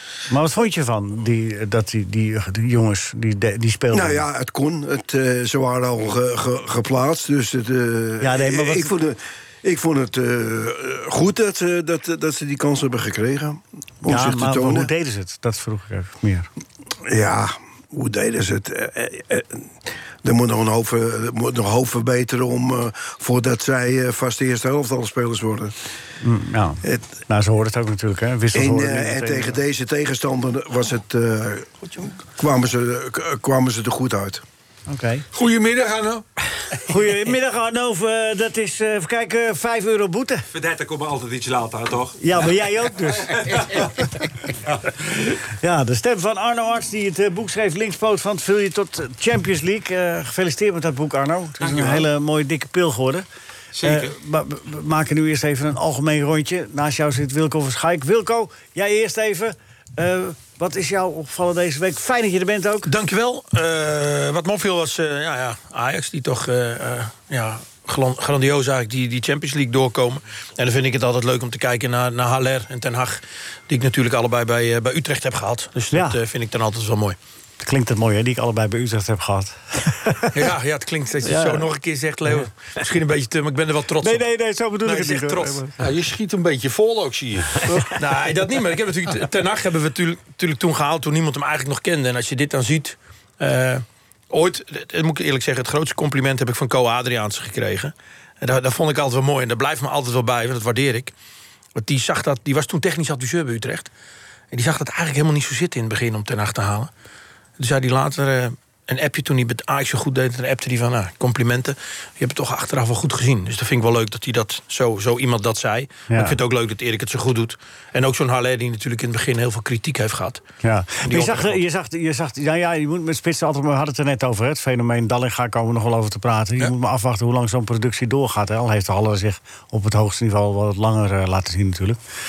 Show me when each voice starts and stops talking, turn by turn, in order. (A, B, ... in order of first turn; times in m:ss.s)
0:00.3-0:04.2 A
0:03.9-0:14.9 B
0:08.2-0:08.9 A
0:14.1-0:16.5 A
0:17.0-0:19.6 B
0:20.2-0:25.7 B
0:26.2-0:29.6 A
0:28.5-0:34.4 B
0:34.9-0:35.2 A
0:35.3-0:36.2 C
0:36.9-0:40.4 A
0:40.5-0:42.5 D
0:42.2-0:43.8 A
0:43.3-0:44.1 D
0:45.6-0:53.3 A
0:51.6-0:52.0 D
0:53.7-0:54.1 D
0:53.8-1:02.9 A
1:02.8-1:17.2 E
1:15.9-1:16.2 A
1:17.6-1:20.4 A
1:20.3-1:24.3 E
1:21.2-1:21.6 A
1:24.0-1:25.8 A
1:24.8-1:25.6 E
1:25.8-1:27.6 C
1:27.7-1:27.9 A
1:28.0-1:41.1 E
1:41.8-1:43.9 E
1:44.5-1:46.9 E
1:47.6-2:00.4 E
1:56.1-1:56.4 A
2:00.6-2:12.0 A
2:01.0-2:01.6 E